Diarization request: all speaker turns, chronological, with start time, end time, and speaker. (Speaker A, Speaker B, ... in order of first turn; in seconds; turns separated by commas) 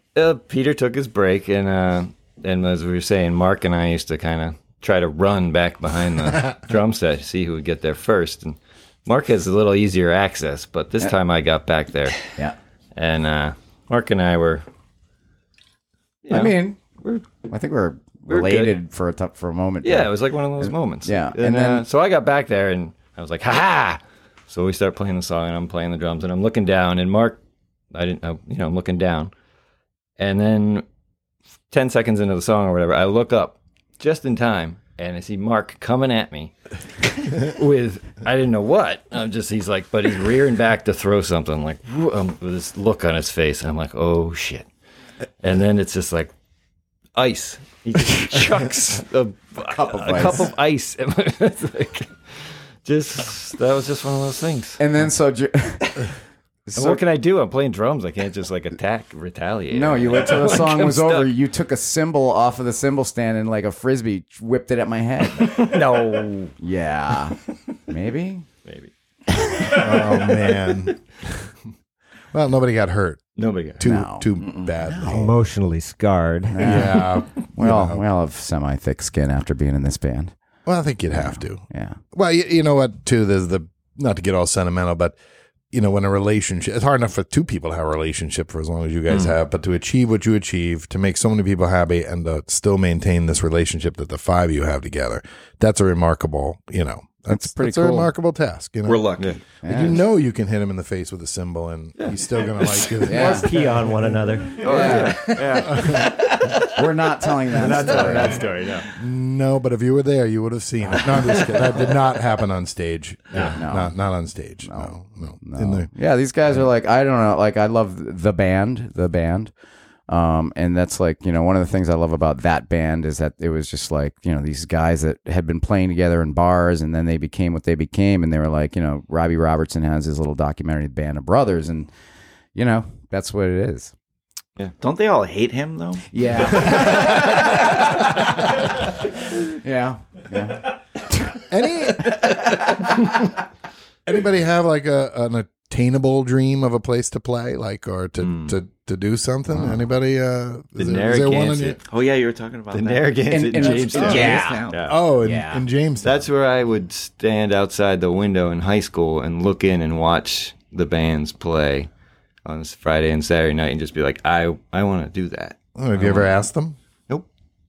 Speaker A: 0.1-12.2, Speaker A: 12.9-14.6, Speaker A: 16.2-17.3, Speaker B: 16.3-16.8, Speaker B: 17.4-21.8, Speaker A: 18.3-18.8, Speaker A: 19.8-27.4, Speaker A: 27.9-29.3, Speaker A: 30.2-30.8, Speaker A: 31.7-36.5, Speaker A: 37.2-44.6, Speaker A: 45.4-46.3, Speaker A: 47.1-52.1, Speaker B: 49.6-50.5, Speaker A: 52.8-54.8, Speaker B: 54.8-56.1, Speaker B: 56.7-57.0, Speaker A: 56.7-61.3, Speaker B: 59.7-65.7, Speaker A: 65.4-66.5, Speaker B: 66.6-67.4, Speaker B: 67.9-68.5, Speaker A: 68.6-68.9, Speaker B: 69.3-69.8, Speaker C: 69.6-71.3, Speaker C: 72.3-73.2, Speaker A: 73.4-73.8, Speaker C: 73.8-75.3, Speaker B: 73.8-74.3, Speaker B: 74.8-75.3, Speaker D: 75.0-76.9, Speaker B: 76.5-80.3, Speaker C: 76.6-78.0, Speaker C: 80.7-85.2, Speaker B: 81.1-82.0, Speaker C: 85.7-99.1, Speaker B: 97.3-98.1, Speaker E: 98.8-99.4, Speaker B: 99.6-100.0, Speaker C: 99.6-103.5, Speaker A: 102.0-102.9, Speaker D: 103.0-104.7, Speaker B: 103.0-103.5, Speaker A: 104.5-106.7, Speaker B: 104.6-106.0, Speaker E: 104.6-105.6, Speaker C: 105.7-106.1, Speaker B: 106.7-108.5, Speaker A: 107.5-108.9, Speaker C: 107.8-108.4, Speaker C: 108.9-115.9, Speaker A: 113.3-113.6, Speaker B: 113.5-113.9, Speaker B: 114.7-114.9, Speaker B: 115.4-119.5, Speaker B: 120.1-131.9, Speaker B: 132.5-133.9, Speaker E: 134.8-136.6, Speaker B: 136.1-141.4, Speaker C: 141.5-142.9, Speaker C: 144.1-151.8, Speaker A: 148.2-148.6, Speaker A: 150.8-151.8, Speaker E: 151.9-154.9, Speaker A: 152.7-154.9, Speaker B: 153.3-155.6, Speaker C: 154.8-156.3, Speaker A: 156.0-161.9, Speaker A: 162.4-166.3, Speaker C: 165.8-166.8